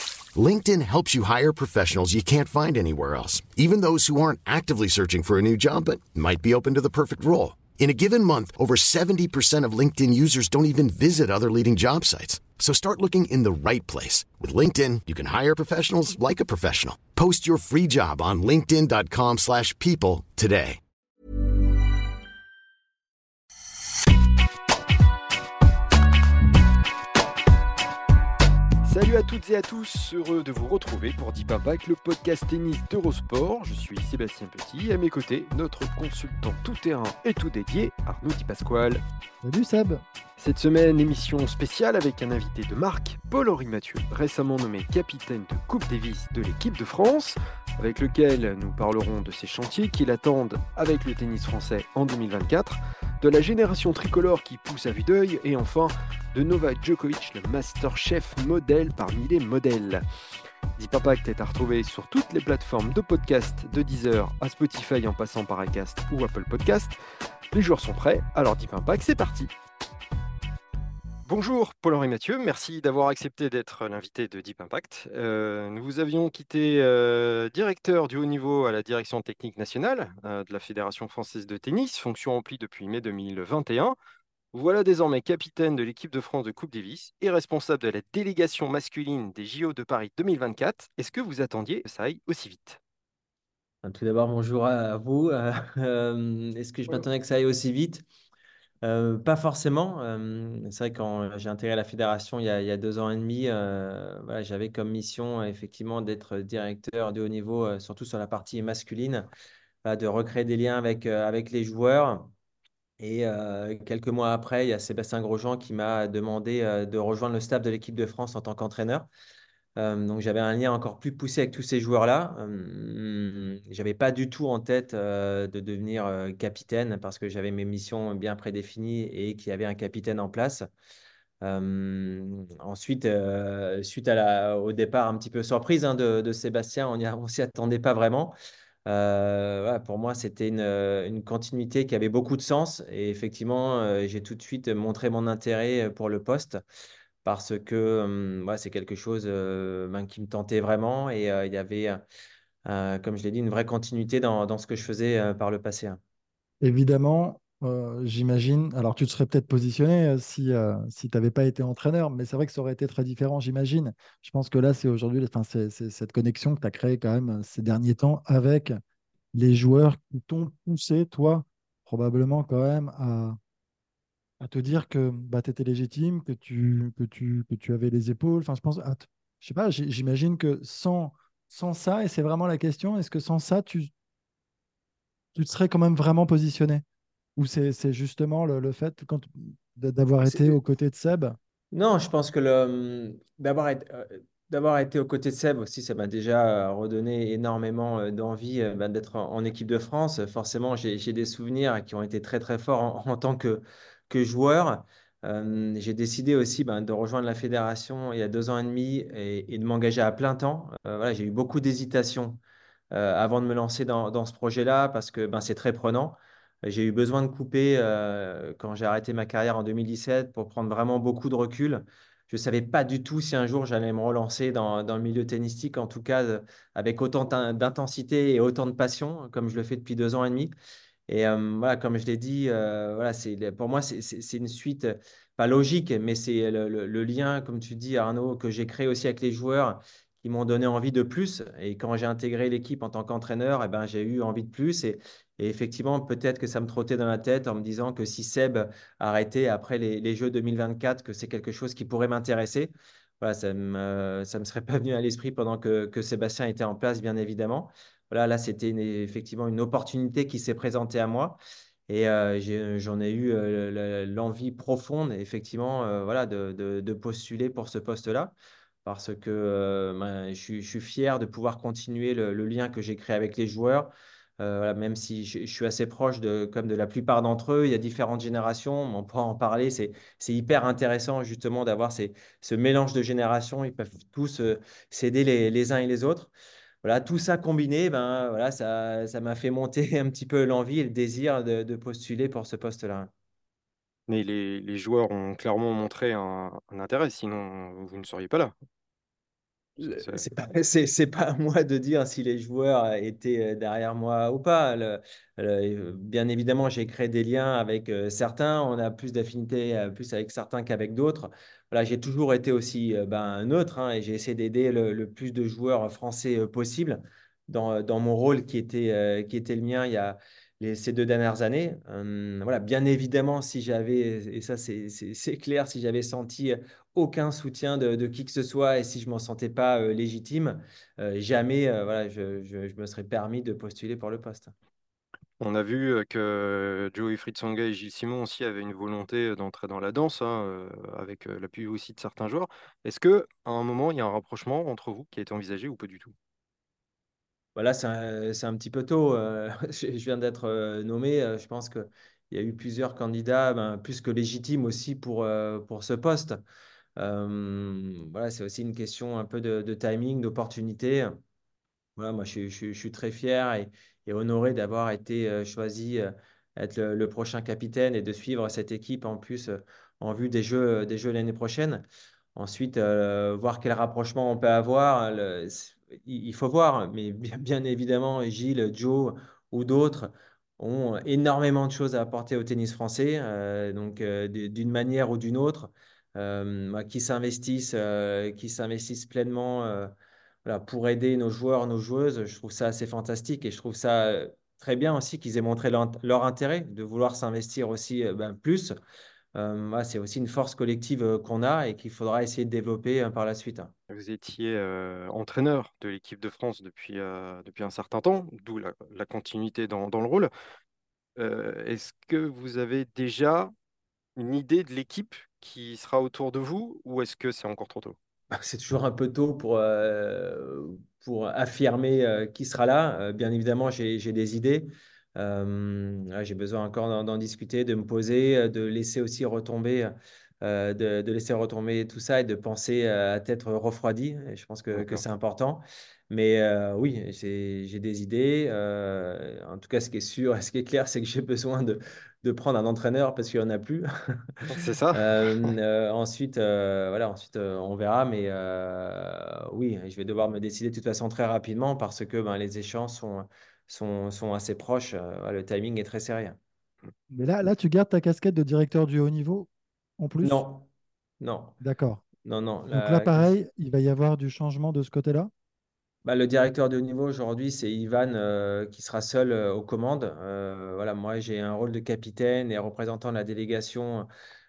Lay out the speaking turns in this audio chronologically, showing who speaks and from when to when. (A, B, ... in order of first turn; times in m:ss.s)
0:00.3-0:20.8 A
0:28.8-0:39.0 B
0:39.4-0:40.0 C
0:40.4-1:00.0 B
1:00.8-1:07.0 B
1:07.5-1:09.5 B
1:11.3-1:24.0 B
1:24.5-1:32.8 B
1:33.8-1:38.0 D
1:38.8-1:49.3 D
1:49.8-1:52.3 D
1:53.0-1:59.1 D
1:59.8-2:10.7 D
2:11.4-2:18.3 D
2:18.9-2:26.6 D
2:27.2-2:32.0 D
2:32.6-2:36.0 D
2:36.6-2:48.8 C
2:49.3-2:53.4 C
2:54.4-3:03.9 C
3:05.4-3:06.8 C
3:07.4-3:11.4 C
3:10.3-3:10.6 D
3:11.7-3:32.4 D
3:32.9-3:50.5 D
3:51.1-4:28.3 D
4:28.8-4:46.3 D
4:46.8-4:53.1 D
4:54.1-4:58.5 B
4:59.8-5:34.5 D
5:00.0-5:00.3 B
5:35.4-5:46.2 B
5:47.6-5:56.4 D
5:57.0-6:01.2 D
6:02.0-6:11.8 D
6:12.4-6:29.9 D
6:30.4-6:38.7 D
6:39.4-6:43.7 D
6:43.9-6:50.3 B
6:51.2-6:53.5 B
6:54.2-6:58.0 B
6:58.3-7:36.4 D
7:14.7-7:15.0 B
7:24.5-7:25.5 B
7:37.1-7:40.4 C
7:40.2-7:40.7 D
7:41.2-7:41.6 D
7:41.6-7:42.0 C
7:42.2-7:43.3 D
7:42.7-7:45.3 C
7:46.0-7:54.1 D